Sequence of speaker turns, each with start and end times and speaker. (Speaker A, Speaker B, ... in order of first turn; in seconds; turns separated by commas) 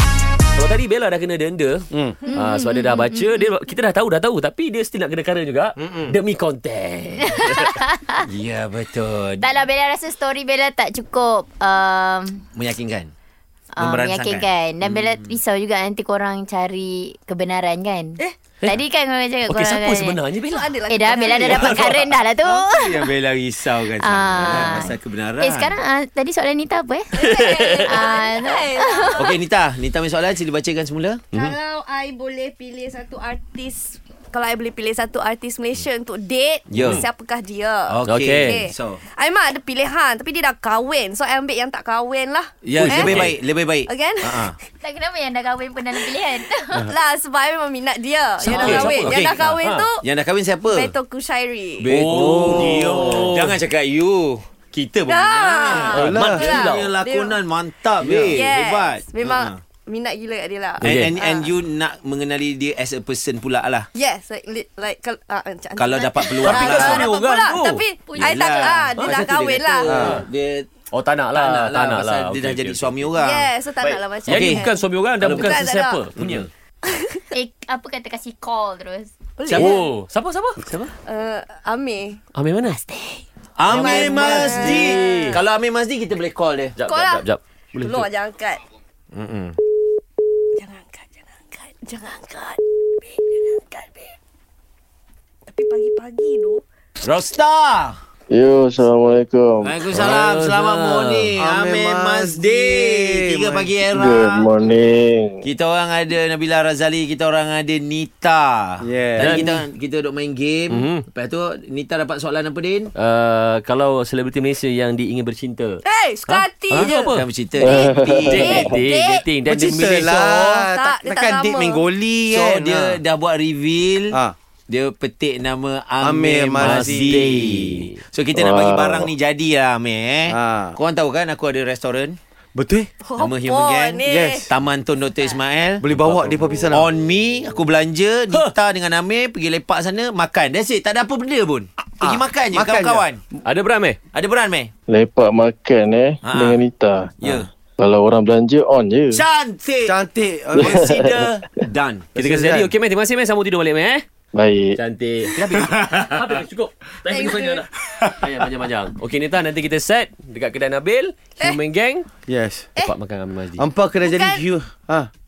Speaker A: 0.5-7.8, Speaker B: 1.9-2.2, Speaker C: 2.3-3.5, Speaker D: 5.8-6.1, Speaker C: 7.4-8.2, Speaker D: 8.2-9.5, Speaker C: 9.4-12.4, Speaker D: 12.5-13.1, Speaker C: 13.7-20.2, Speaker D: 13.8-15.3, Speaker A: 19.5-20.7, Speaker E: 20.5-22.1, Speaker C: 20.9-23.1, Speaker A: 21.6-21.9, Speaker D: 22.4-25.7, Speaker C: 24.0-29.2, Speaker E: 27.1-29.4, Speaker D: 29.1-31.3, Speaker E: 31.3-44.5, Speaker D: 36.7-37.0, Speaker D: 37.9-39.0, Speaker A: 38.0-38.6, Speaker D: 42.6-44.5, Speaker A: 42.8-43.4, Speaker C: 44.8-46.9, Speaker E: 46.6-50.0, Speaker A: 48.4-49.9, Speaker D: 50.0-50.9, Speaker E: 50.6-51.9, Speaker D: 51.8-59.5, Speaker A: 51.9-53.6, Speaker B: 52.6-52.9, Speaker E: 55.1-57.4, Speaker A: 55.7-56.9, Speaker B: 55.9-56.6, Speaker B: 58.0-58.4, Speaker E: 58.3-61.5, Speaker D: 60.8-63.9, Speaker A: 60.8-61.1, Speaker E: 63.9-69.9, Speaker D: 65.8-67.1, Speaker A: 66.3-67.8, Speaker D: 68.1-70.7, Speaker A: 68.8-69.3, Speaker B: 69.8-70.2, Speaker A: 69.9-70.2, Speaker A: 70.9-73.1, Speaker D: 71.3-73.5, Speaker E: 73.2-76.1, Speaker A: 73.8-76.5, Speaker D: 74.3-74.6, Speaker D: 75.2-75.5, Speaker D: 76.2-76.5, Speaker E: 76.9-77.2, Speaker C: 77.3-79.1, Speaker E: 79.4-79.8, Speaker D: 79.5-79.7, Speaker A: 79.5-80.9, Speaker E: 81.1-82.2, Speaker A: 82.3-82.8, Speaker D: 83.6-86.8, Speaker E: 83.7-85.4, Speaker A: 83.7-85.4, Speaker A: 86.8-88.1, Speaker E: 86.8-87.3, Speaker E: 87.8-88.6, Speaker D: 89.1-89.6, Speaker E: 90.5-94.1, Speaker E: 95.5-96.6, Speaker D: 97.0-98.0, Speaker F: 98.3-99.8, Speaker D: 99.6-104.5, Speaker A: 99.9-101.3, Speaker B: 101.4-103.8, Speaker F: 103.9-105.5, Speaker D: 105.4-112.9, Speaker B: 108.8-109.6, Speaker A: 109.1-109.5, Speaker A: 110.7-111.0, Speaker A: 112.9-117.2, Speaker E: 115.8-117.1, Speaker D: 117.0-118.3, Speaker F: 117.6-118.7, Speaker E: 117.7-119.2, Speaker A: 118.1-120.6, Speaker B: 119.4-123.0, Speaker E: 120.7-121.8, Speaker D: 122.3-124.2, Speaker D: 124.7-132.2, Speaker B: 126.0-127.8, Speaker A: 126.6-128.0, Speaker F: 128.3-129.1, Speaker B: 130.3-130.8, Speaker B: 132.5-132.9, Speaker E: 133.0-134.5, Speaker D: 133.2-136.1, Speaker B: 134.0-134.5, Speaker B: 135.8-136.9, Speaker A: 136.1-136.4, Speaker D: 136.7-143.2, Speaker B: 142.0-143.1, Speaker A: 143.4-144.0, Speaker D: 144.1-144.7, Speaker F: 144.9-149.2, Speaker D: 146.2-146.6, Speaker D: 147.2-147.5, Speaker D: 149.1-150.0, Speaker B: 149.8-150.7, Speaker F: 150.5-151.3, Speaker D: 150.6-152.2, Speaker A: 152.2-154.0, Speaker B: 152.2-152.7, Speaker F: 154.3-154.8, Speaker A: 154.7-162.1, Speaker D: 155.6-156.2, Speaker E: 157.1-157.7, Speaker B: 162.3-162.8, Speaker A: 162.8-163.6, Speaker B: 163.6-165.1, Speaker E: 164.0-164.4